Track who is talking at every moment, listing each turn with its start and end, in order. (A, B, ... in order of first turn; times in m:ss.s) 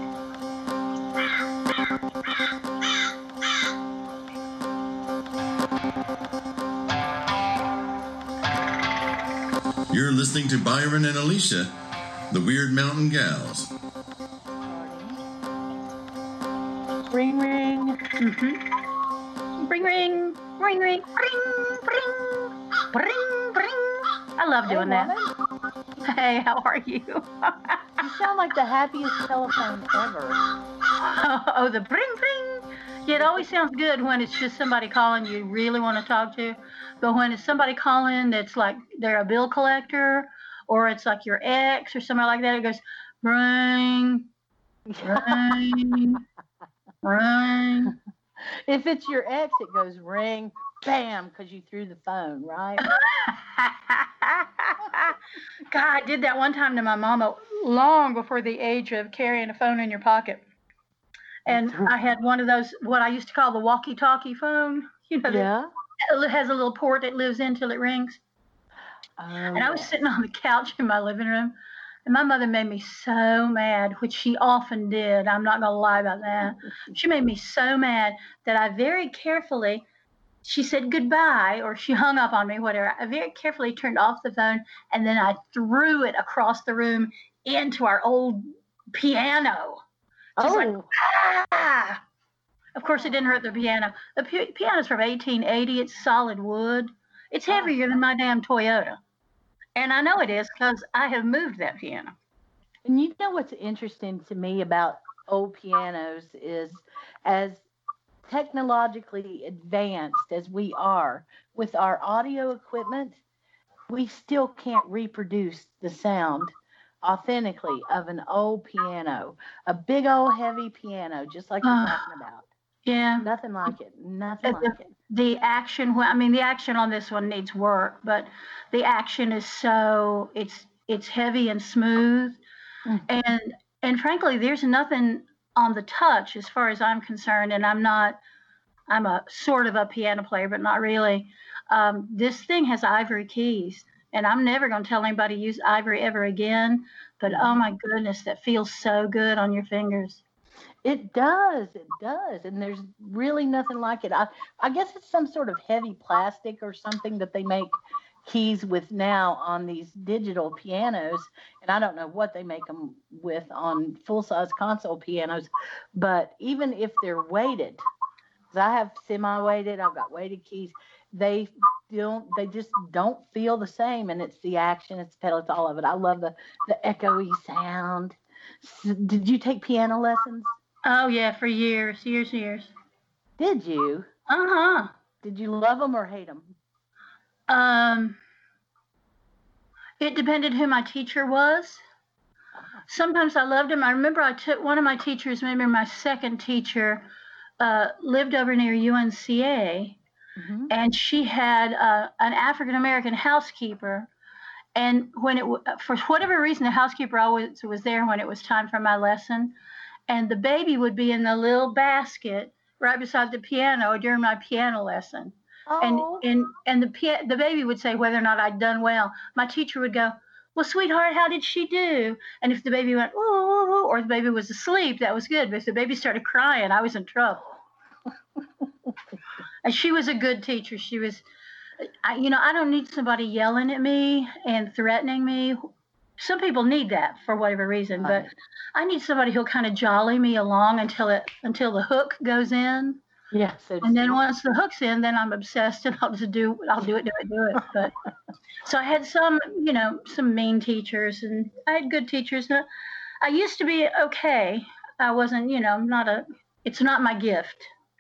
0:09.9-0:11.7 A
0:12.3-0:13.7 A
0:14.6-0:15.2 B
0:17.1-0:18.0 B
0:18.2-0:18.6 C
0:19.6-0:25.1 C
0:19.8-0:20.2 B
0:24.7-0:25.3 B
0:26.0-0:28.0 C
0:28.0-0:30.4 B
0:31.0-0:44.2 C
0:33.1-0:33.5 B
0:44.9-0:46.0 B
0:45.0-0:46.2 C
0:47.0-0:48.0 C
0:47.9-0:52.9 B
0:52.8-1:00.4 C
1:01.4-1:05.5 C
1:01.5-1:02.0 B
1:05.3-1:05.7 B
1:06.1-1:08.2 C
1:09.2-1:10.0 B
1:09.5-1:11.6 C
1:12.1-1:19.8 C
1:20.4-1:29.8 C
1:30.4-1:30.9 B
1:30.4-1:32.0 C
1:32.8-1:39.0 C
1:39.8-1:42.2 C
1:42.8-1:47.6 B
1:48.2-1:53.2 B
1:53.9-2:02.5 B
2:01.6-2:02.0 C
2:02.8-2:03.3 C
2:03.2-2:04.8 B
2:04.4-2:12.4 C
2:13.1-2:18.2 C
2:18.9-2:30.2 C
2:27.3-2:27.6 B
2:30.8-2:47.8 B
2:48.5-3:00.6 B
3:00.8-3:02.7 C
3:03.4-3:04.1 B
3:04.3-3:04.9 C
3:05.2-3:06.5 B
3:07.5-3:08.2 C
3:10.0-3:11.8 C
3:12.9-3:17.0 C
3:17.6-3:20.0 C
3:20.4-3:20.7 B
3:20.7-3:24.1 C
3:24.8-3:29.5 C
3:30.1-3:47.4 C
3:35.7-3:36.2 B
3:49.6-3:51.2 C
3:51.8-3:55.6 C
3:56.2-4:03.0 C
3:58.0-3:58.3 B
4:03.3-4:04.2 B
4:03.8-4:07.9 C
4:08.6-4:12.7 C
4:13.2-4:17.7 C